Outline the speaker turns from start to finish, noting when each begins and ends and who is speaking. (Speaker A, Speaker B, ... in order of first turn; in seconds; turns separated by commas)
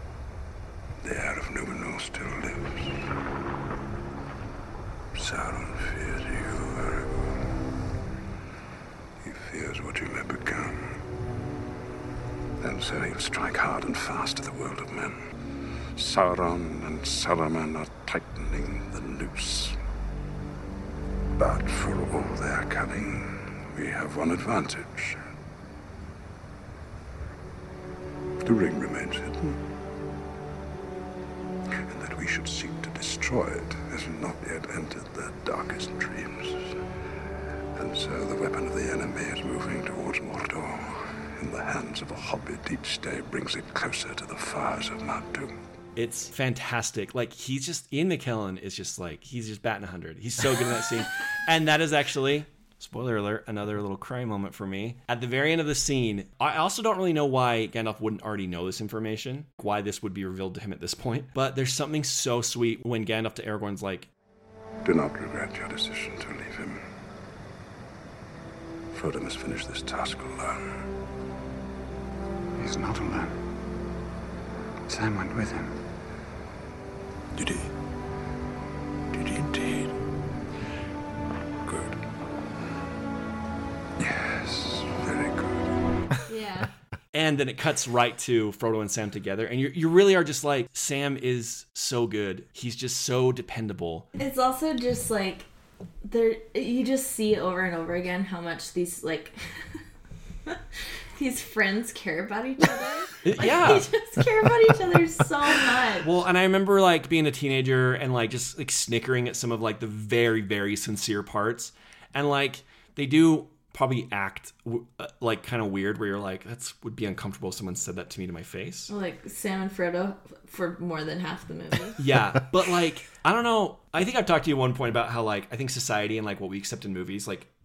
Speaker A: 1.0-3.0, Speaker A: 5.2-7.3, Speaker A: 9.2-10.8, Speaker A: 12.6-15.2, Speaker A: 16.0-19.8, Speaker A: 21.4-25.2, Speaker A: 28.4-29.6, Speaker A: 31.9-36.6, Speaker A: 37.8-45.5, Speaker B: 46.0-64.1, Speaker A: 64.8-66.8, Speaker A: 68.9-70.6, Speaker A: 72.6-73.3, Speaker A: 74.9-75.7, Speaker A: 77.4-77.7, Speaker A: 79.1-79.9, Speaker A: 81.7-82.0, Speaker A: 84.0-85.7, Speaker C: 86.3-86.7, Speaker B: 87.1-94.1, Speaker C: 94.2-95.5, Speaker C: 96.0-99.4, Speaker C: 101.1-106.1, Speaker B: 103.2-103.9, Speaker B: 106.0-118.9, Speaker C: 118.9-122.0, Speaker B: 122.0-127.5